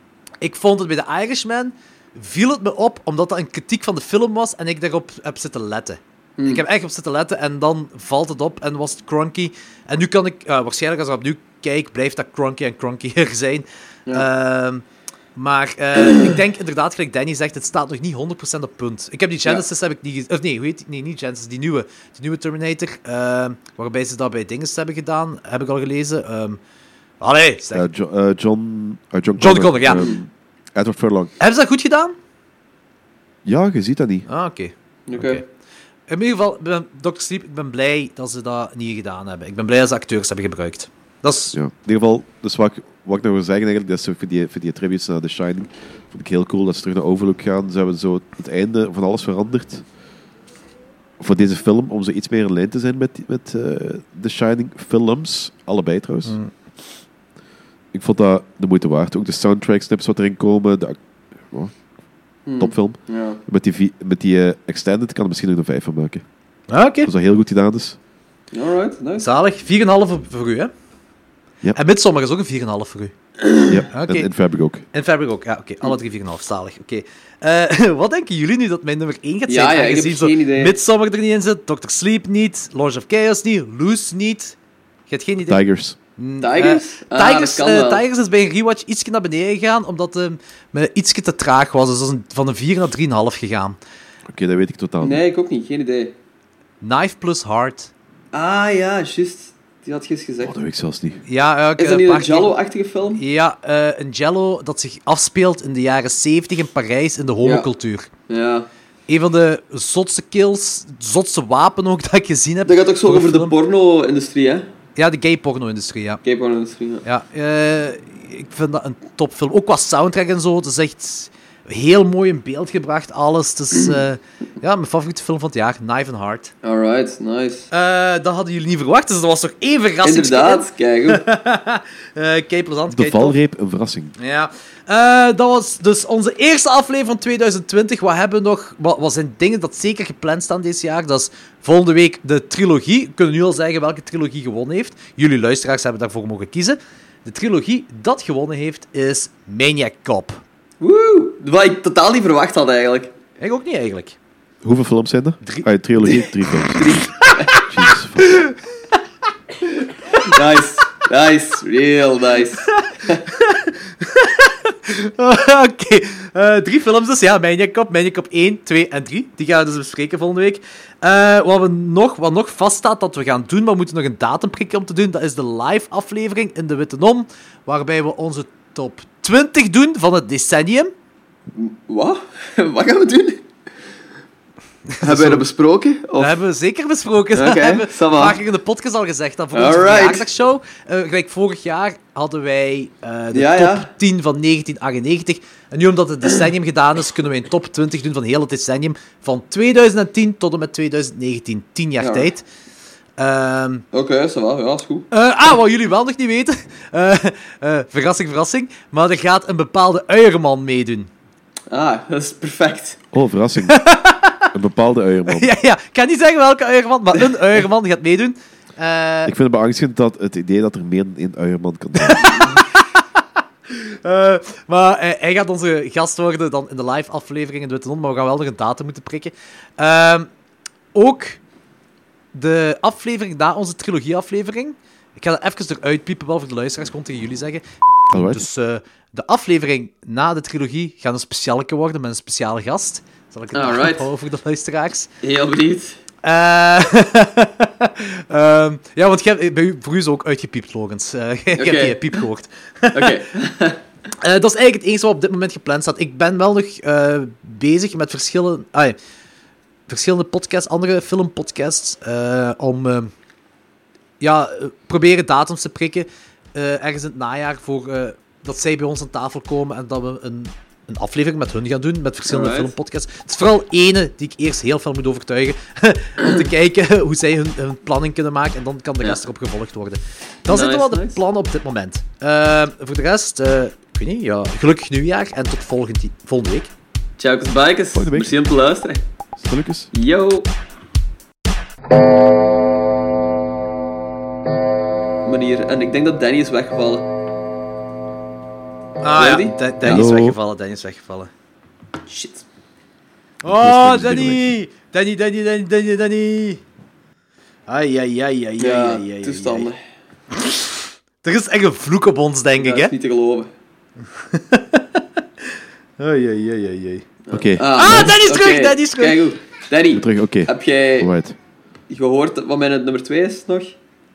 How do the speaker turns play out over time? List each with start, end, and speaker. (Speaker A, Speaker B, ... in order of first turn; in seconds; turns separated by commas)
Speaker A: 0.4-14.8, Speaker B: 6.4-6.6, Speaker A: 15.3-26.6, Speaker B: 15.9-16.4, Speaker A: 27.2-27.9, Speaker C: 27.7-31.3, Speaker A: 29.4-30.1, Speaker B: 29.9-30.2, Speaker A: 31.4-32.1, Speaker C: 33.4-34.3, Speaker A: 34.3-35.4, Speaker B: 35.1-35.4, Speaker A: 36.1-41.6, Speaker C: 41.5-49.8, Speaker C: 51.2-56.4, Speaker C: 57.9-61.0, Speaker C: 61.5-61.8, Speaker B: 62.5-63.4, Speaker C: 62.6-66.2, Speaker A: 66.7-67.1, Speaker C: 67.0-68.0, Speaker B: 68.5-69.3, Speaker A: 69.2-70.7, Speaker A: 71.7-73.1, Speaker B: 73.5-73.7, Speaker C: 73.7-74.8, Speaker A: 73.9-74.3, Speaker A: 74.9-84.5, Speaker B: 79.5-80.8, Speaker A: 85.1-85.6, Speaker C: 85.5-86.0, Speaker A: 86.2-93.8, Speaker B: 86.4-88.0, Speaker C: 94.3-95.2, Speaker B: 95.0-96.1, Speaker A: 96.8-97.9, Speaker B: 98.3-100.5, Speaker C: 100.4-101.2, Speaker A: 101.2-102.5, Speaker B: 101.8-103.2, Speaker A: 103.2-108.1, Speaker B: 107.4-107.7, Speaker B: 108.3-108.7, Speaker A: 109.1-113.5, Speaker B: 112.7-114.7, Speaker A: 115.0-116.2, Speaker B: 116.2-117.0, Speaker A: 117.0-126.5, Speaker B: 126.6-127.7, Speaker A: 127.7-133.3, Speaker B: 130.0-131.2, Speaker C: 132.9-134.1, Speaker A: 134.2-150.4, Speaker B: 150.8-153.1, Speaker A: 153.4-154.2, Speaker C: 154.6-157.0, Speaker A: 155.4-156.2, Speaker B: 156.7-157.6, Speaker A: 157.2-157.6, Speaker C: 157.6-158.4, Speaker A: 158.2-158.6, Speaker B: 160.1-163.3, Speaker A: 162.7-180.9, Speaker B: 181.5-183.4, Speaker A: 184.9-185.4, Speaker B: 185.0-186.4, Speaker A: 186.2-202.4, Speaker B: 187.3-188.4, Speaker B: 189.5-190.2, Speaker B: 193.3-193.9, Speaker B: 202.0-202.3, Speaker A: 203.2-203.8, Speaker B: 203.9-205.1, Speaker A: 205.1-211.1, Speaker B: 211.7-213.0, Speaker C: 213.1-213.8, Speaker A: 213.7-214.5, Speaker C: 214.5-215.5, Speaker A: 215.3-219.3, Speaker C: 219.2-222.3, Speaker A: 222.0-230.3, Speaker A: 230.9-231.4, Speaker A: 232.3-245.1, Speaker C: 238.1-238.4, Speaker B: 243.5-244.0, Speaker B: 245.2-246.0, Speaker A: 246.2-253.2, Speaker B: 251.5-252.2, Speaker B: 252.9-253.8, Speaker A: 254.2-259.0, Speaker A: 259.9-263.1, Speaker A: 264.2-286.7, Speaker B: 272.3-272.7, Speaker B: 280.5-281.2, Speaker B: 287.2-289.0, Speaker C: 287.9-288.4, Speaker C: 289.4-289.9, Speaker B: 289.9-290.5, Speaker B: 295.2-297.1, Speaker A: 299.0-301.3, Speaker B: 299.1-299.6, Speaker C: 299.8-300.4, Speaker B: 302.1-302.4, Speaker C: 303.4-304.5, Speaker A: 303.4-306.6, Speaker A: 307.7-309.7, Speaker B: 308.6-309.8, Speaker A: 310.3-312.9, Speaker B: 312.6-313.5, Speaker A: 314.1-315.2, Speaker A: 316.0-317.1, Speaker B: 317.3-321.1, Speaker C: 317.3-318.1, Speaker A: 317.7-319.3, Speaker C: 319.9-321.4, Speaker B: 321.9-323.8